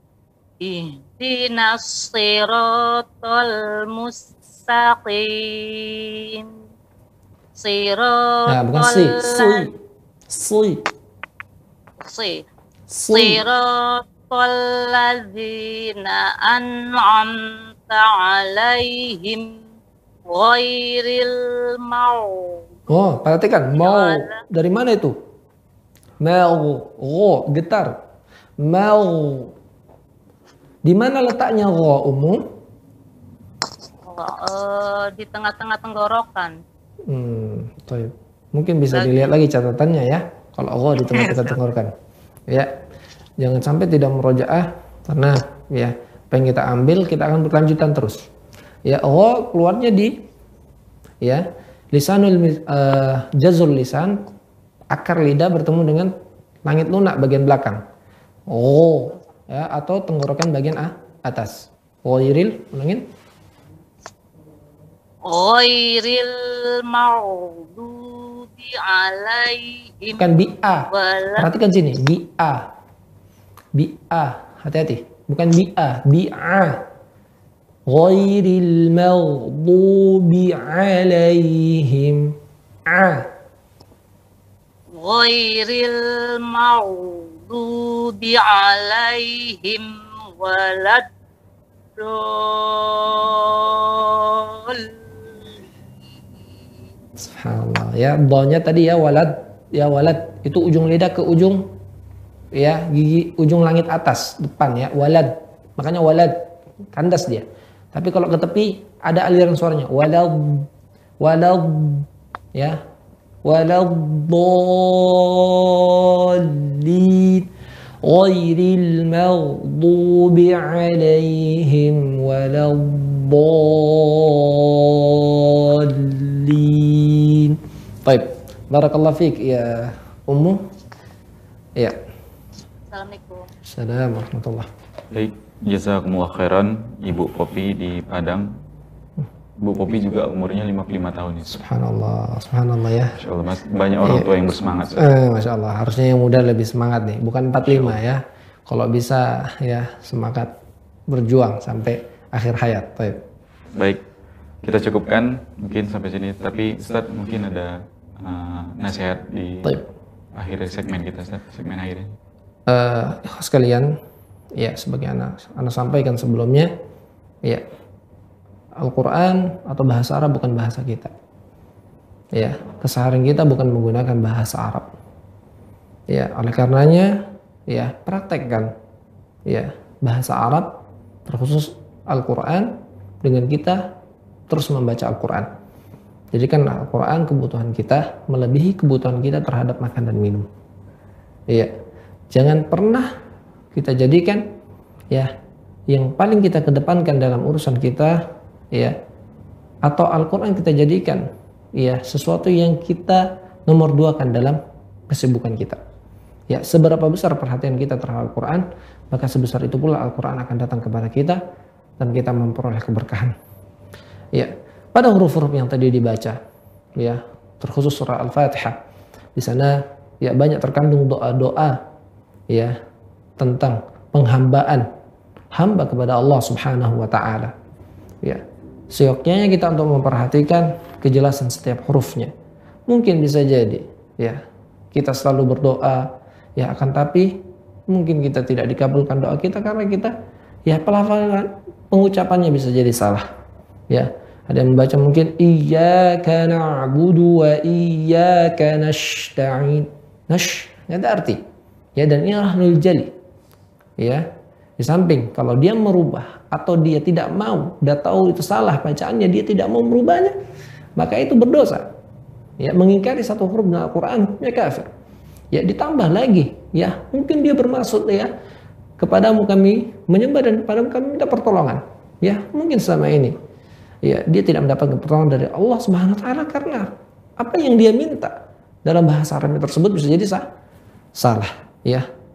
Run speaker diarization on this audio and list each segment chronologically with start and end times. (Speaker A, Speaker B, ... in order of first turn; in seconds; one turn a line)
Speaker A: 0.6-6.5
Speaker A: 7.5-9.7
Speaker B: 8.5-9.7
Speaker B: 10.3-10.9
Speaker A: 12.0-12.4
Speaker B: 12.9-13.4
Speaker A: 13.1-17.3
Speaker A: 17.9-19.6
Speaker A: 20.3-22.6
Speaker B: 22.9-25.2
Speaker A: 23.8-24.4
Speaker B: 26.2-28.0
Speaker B: 28.6-29.5
Speaker B: 30.9-32.4
Speaker A: 34.1-36.6
Speaker B: 37.1-41.9
Speaker A: 38.9-39.3
Speaker A: 41.1-41.6
Speaker B: 42.5-42.7
Speaker B: 43.4-48.2
Speaker B: 48.9-50.2
Speaker B: 51.2-54.2
Speaker B: 54.9-56.1
Speaker B: 56.7-57.8
Speaker B: 58.5-63.1
Speaker A: 65.3-70.3
Speaker B: 70.2-72.7
Speaker A: 70.9-71.5
Speaker B: 73.8-76.8
Speaker B: 77.9-82.3
Speaker B: 82.9-83.3
Speaker A: 85.0-91.1
Speaker A: 92.0-95.0
Speaker B: 97.2-101.7
Speaker B: 102.5-110.7
Speaker B: 111.2-112.8
Speaker B: 113.4-117.5
Speaker B: 118.0-130.6
Speaker A: 132.9-133.5
Speaker B: 133.7-134.7
Speaker C: 135.1-138.5
Speaker C: 139.6-141.6
Speaker B: 141.6-143.2
Speaker C: 143.2-145.1
Speaker B: 144.0-144.3
Speaker B: 145.0-150.5
Speaker C: 147.6-148.0
Speaker B: 151.1-153.2
Speaker C: 153.8-154.0
Speaker C: 154.6-159.8
Speaker C: 160.3-162.2
Speaker B: 162.7-163.9
Speaker B: 164.6-166.7
Speaker B: 168.8-171.1
Speaker B: 172.3-174.9
Speaker B: 176.1-178.7
Speaker B: 179.5-183.9
Speaker B: 184.5-185.5
Speaker B: 186.3-190.5
Speaker B: 192.3-193.1
Speaker B: 193.7-194.5
Speaker B: 195.9-199.0
Speaker B: 199.8-205.8
Speaker B: 206.5-211.4
Speaker B: 212.0-213.3
Speaker B: 214.3-216.4
Speaker B: 217.0-218.8
Speaker B: 219.4-221.8
Speaker B: 223.4-224.9
Speaker B: 225.5-227.5
Speaker B: 228.2-232.3
Speaker B: 232.9-234.4
Speaker B: 234.9-240.1
Speaker B: 240.7-243.3
Speaker B: 243.9-251.4
Speaker B: 252.0-253.1
Speaker B: 254.0-254.3
Speaker B: 254.8-260.4
Speaker B: 261.0-261.9
Speaker B: 262.6-264.9
Speaker B: 265.5-268.3
Speaker B: 269.0-273.4
Speaker B: 274.0-280.5
Speaker B: 281.2-282.1